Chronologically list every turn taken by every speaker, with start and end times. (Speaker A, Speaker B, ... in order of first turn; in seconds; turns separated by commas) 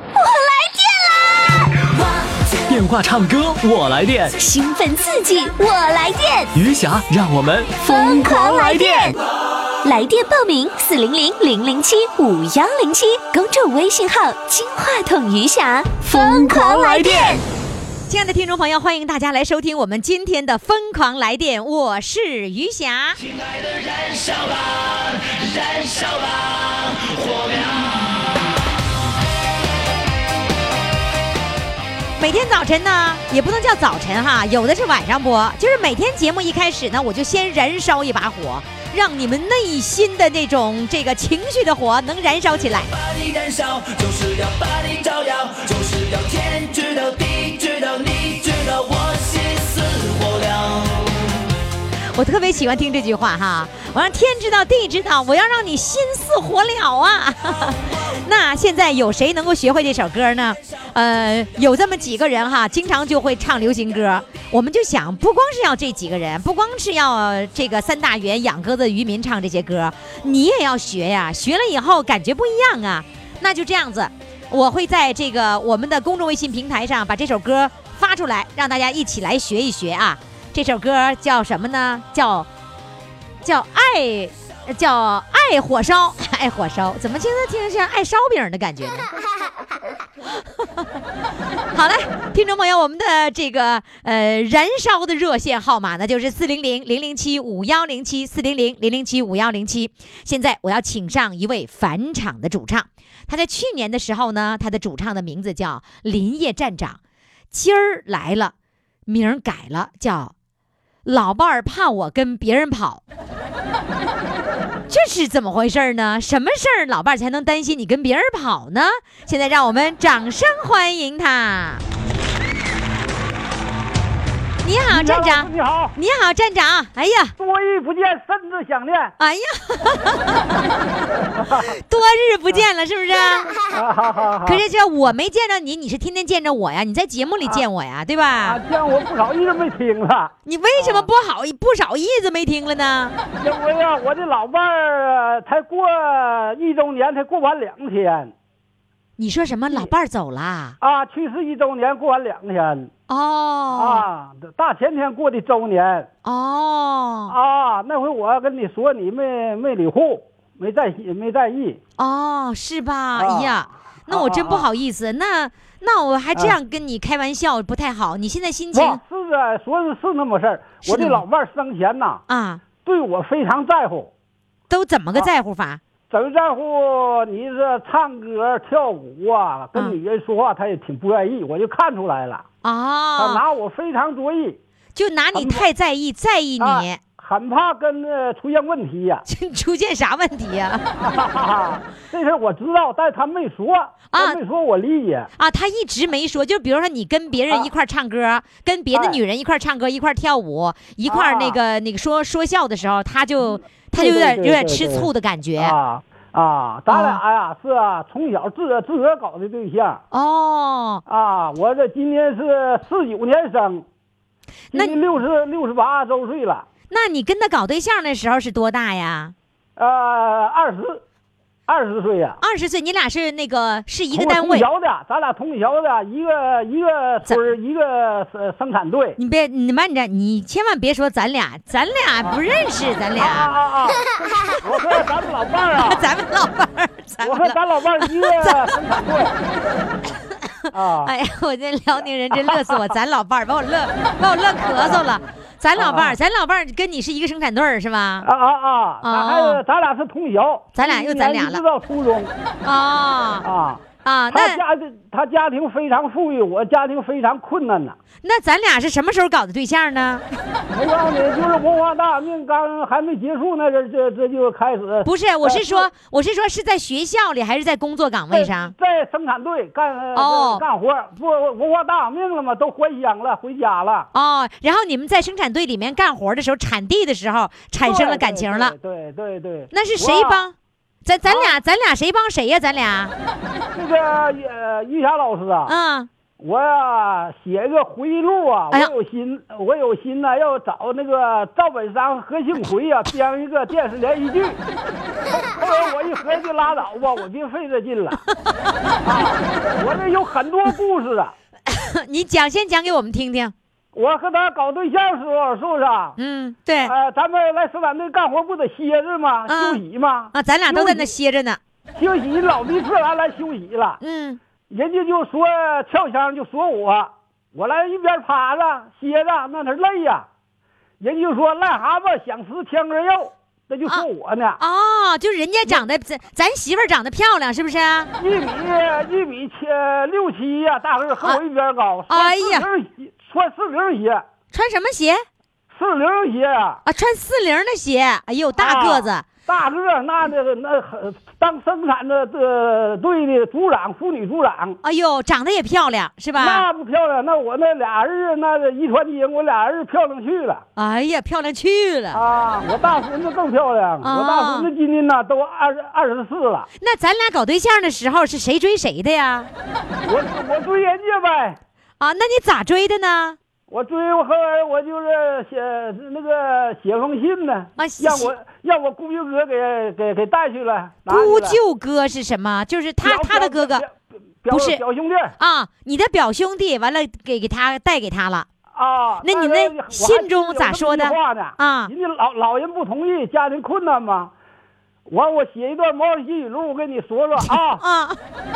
Speaker A: 0.1-1.6, Speaker B: 2.6-4.3, Speaker A: 4.4-6.5, Speaker B: 6.5-9.1, Speaker A: 7.8-9.2, Speaker A: 9.8-17.4, Speaker B: 16.1-17.3, Speaker C: 18.1-23.2, Speaker D: 23.8-26.3, Speaker C: 32.2-42.9, Speaker D: 44.0-44.7, Speaker D: 45.7-46.5, Speaker D: 49.3-50.6, Speaker C: 52.1-82.5, Speaker C: 83.4-89.1, Speaker C: 91.7-107.0, Speaker C: 107.5-108.5, Speaker C: 109.0-110.3, Speaker C: 111.0-113.0, Speaker C: 114.9-121.8, Speaker C: 124.6-127.3, Speaker E: 124.9-126.0, Speaker E: 127.4-129.1, Speaker C: 129.2-130.7, Speaker E: 131.1-131.7, Speaker C: 131.6-133.5, Speaker E: 133.7-134.6, Speaker C: 134.4-138.6, Speaker E: 138.4-141.1, Speaker C: 140.4-143.2, Speaker E: 143.4-148.3, Speaker C: 149.2-150.8, Speaker E: 150.8-152.9, Speaker C: 153.1-154.1, Speaker E: 153.7-156.1, Speaker C: 156.2-157.3, Speaker E: 157.3-161.8, Speaker C: 162.0-169.0, Speaker E: 163.2-164.7, Speaker E: 168.7-172.2, Speaker C: 170.8-171.2, Speaker C: 172.3-172.6, Speaker E: 172.8-174.1, Speaker C: 174.7-175.8, Speaker E: 176.1-182.4, Speaker C: 182.6-183.4, Speaker E: 183.2-184.6, Speaker C: 184.9-187.0, Speaker E: 185.3-185.7, Speaker E: 186.6-189.2, Speaker C: 189.2-190.8, Speaker E: 190.9-195.3, Speaker C: 194.1-194.4, Speaker C: 195.4-205.8, Speaker E: 198.9-199.2, Speaker E: 201.1-201.6, Speaker E: 203.4-210.0, Speaker C: 206.9-207.2, Speaker C: 210.1-211.0, Speaker E: 211.1-213.8, Speaker C: 214.7-215.0, Speaker E: 214.7-216.7, Speaker C: 216.9-219.3, Speaker E: 219.8-221.0, Speaker E: 221.7-222.4, Speaker C: 222.4-224.7, Speaker E: 224.1-229.2, Speaker C: 229.2-233.5, Speaker E: 233.2-234.1, Speaker E: 234.6-236.1, Speaker C: 235.8-238.7, Speaker E: 237.2-239.3, Speaker E: 240.7-241.1, Speaker C: 241.0-248.3, Speaker E: 242.5-242.8, Speaker E: 244.6-245.1, Speaker E: 245.8-246.2, Speaker E: 248.2-252.3, Speaker C: 249.0-249.6, Speaker C: 250.7-251.6, Speaker C: 252.6-253.5, Speaker E: 253.4-257.9, Speaker C: 254.0-254.6, Speaker C: 258.2-260.2, Speaker E: 260.7-265.9, Speaker C: 265.0-268.7, Speaker E: 268.3-274.1, Speaker C: 270.1-270.6, Speaker C: 274.1-278.7, Speaker E: 277.8-280.4, Speaker C: 279.7-280.5, Speaker C: 281.0-283.1, Speaker E: 281.2-281.6, Speaker E: 283.8-285.7, Speaker C: 285.7-286.1, Speaker E: 286.4-294.6, Speaker E: 295.3-298.2, Speaker E: 299.0-301.3, Speaker C: 301.7-303.5, Speaker E: 303.9-306.2, Speaker C: 306.2-306.9, Speaker E: 306.8-311.1, Speaker C: 309.5-309.8, Speaker C: 310.3-311.6, Speaker E: 311.9-314.0, Speaker C: 314.0-314.4, Speaker E: 314.7-320.3, Speaker E: 321.0-324.6, Speaker C: 324.6-328.1, Speaker E: 328.1-334.2, Speaker C: 332.1-332.7, Speaker C: 334.5-335.2, Speaker E: 335.7-336.8, Speaker C: 336.9-339.2, Speaker E: 338.6-344.8, Speaker C: 344.8-346.6, Speaker E: 346.4-350.6, Speaker C: 350.8-352.2, Speaker E: 352.1-356.7, Speaker C: 354.0-354.7, Speaker C: 356.8-359.5, Speaker E: 360.0-361.6, Speaker C: 362.0-363.4, Speaker E: 363.7-371.6, Speaker C: 367.8-368.3, Speaker C: 371.1-373.8, Speaker E: 373.0-373.9, Speaker E: 374.4-375.4, Speaker C: 374.5-374.8, Speaker C: 375.4-378.5, Speaker E: 378.7-384.3, Speaker C: 379.2-381.9, Speaker E: 385.1-387.8, Speaker C: 387.4-388.2